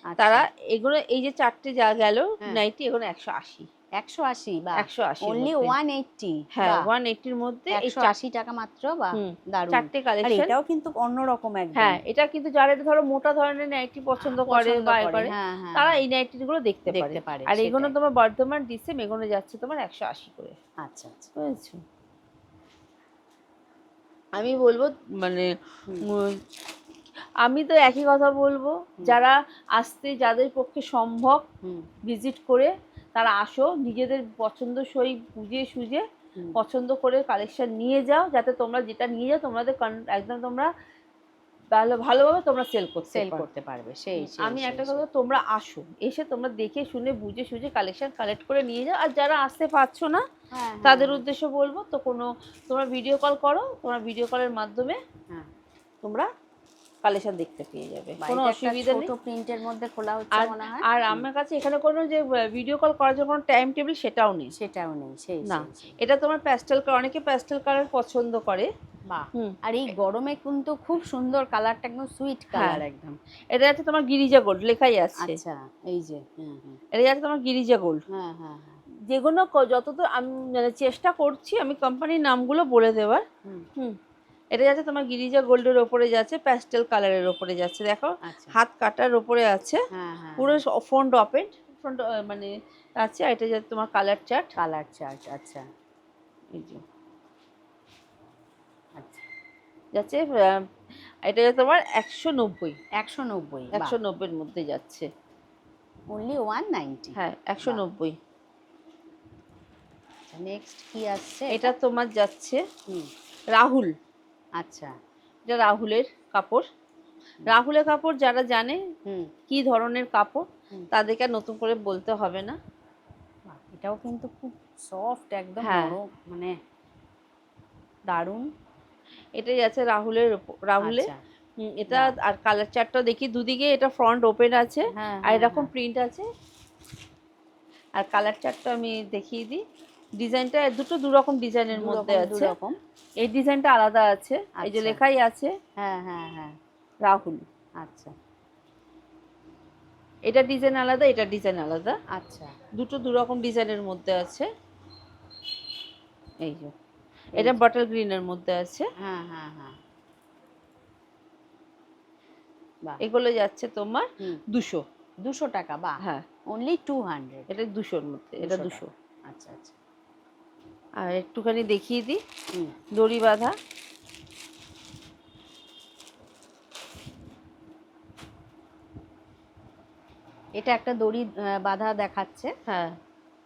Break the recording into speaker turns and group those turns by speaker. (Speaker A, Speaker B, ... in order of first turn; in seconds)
Speaker A: 0.1-0.5, 4.0-6.9, 7.7-12.0, 14.2-16.0, 16.9-17.9, 20.8-21.3, 31.6-31.9, 43.1-45.0, 50.5-51.2, 58.2-61.3, 64.6-66.0, 69.1-73.2, 75.2-76.8, 78.1-78.8, 88.2-88.6, 89.9-90.6, 94.6-95.7, 99.0-99.3, 103.0-104.0, 106.1-107.8, 110.3-111.7, 114.6-115.0, 119.1-119.3, 123.5-126.6, 128.1-128.5, 130.8-131.2, 131.9-132.2, 135.0-135.7, 141.7-142.8, 144.6-145.0, 145.8-146.6, 147.8-148.1, 152.2-152.6, 157.4-157.6, 159.0-159.8, 165.2-167.5, 168.4-169.8, 180.6-182.5
Speaker B: 0.2-3.7, 4.8-5.8, 6.5-8.1, 9.2-10.5, 11.8-20.6, 21.4-21.8, 24.4-26.4, 27.4-31.4, 32.1-40.7, 41.7-43.5, 44.2-50.2, 50.9-55.0, 56.0-56.3, 57.0-59.1, 60.3-64.5, 65.5-68.7, 72.5-72.8, 73.5-75.4, 76.9-78.0, 79.1-83.2, 84.5-89.8, 90.4-94.5, 96.5-96.8, 100.0-100.7, 101.2-102.8, 103.7-105.1, 107.2-108.2, 111.5-112.6, 113.5-113.9, 115.5-116.7, 117.5-118.8, 119.5-122.6, 125.6-126.0, 129.4-136.3, 138.0-139.6, 140.2-142.5, 143.2-145.5, 147.1-147.4, 150.3-152.0, 152.8-154.5, 156.4-156.7, 157.3-158.9, 163.0-164.8, 167.5-168.9, 171.0-172.2, 172.9-173.6, 182.7-183.0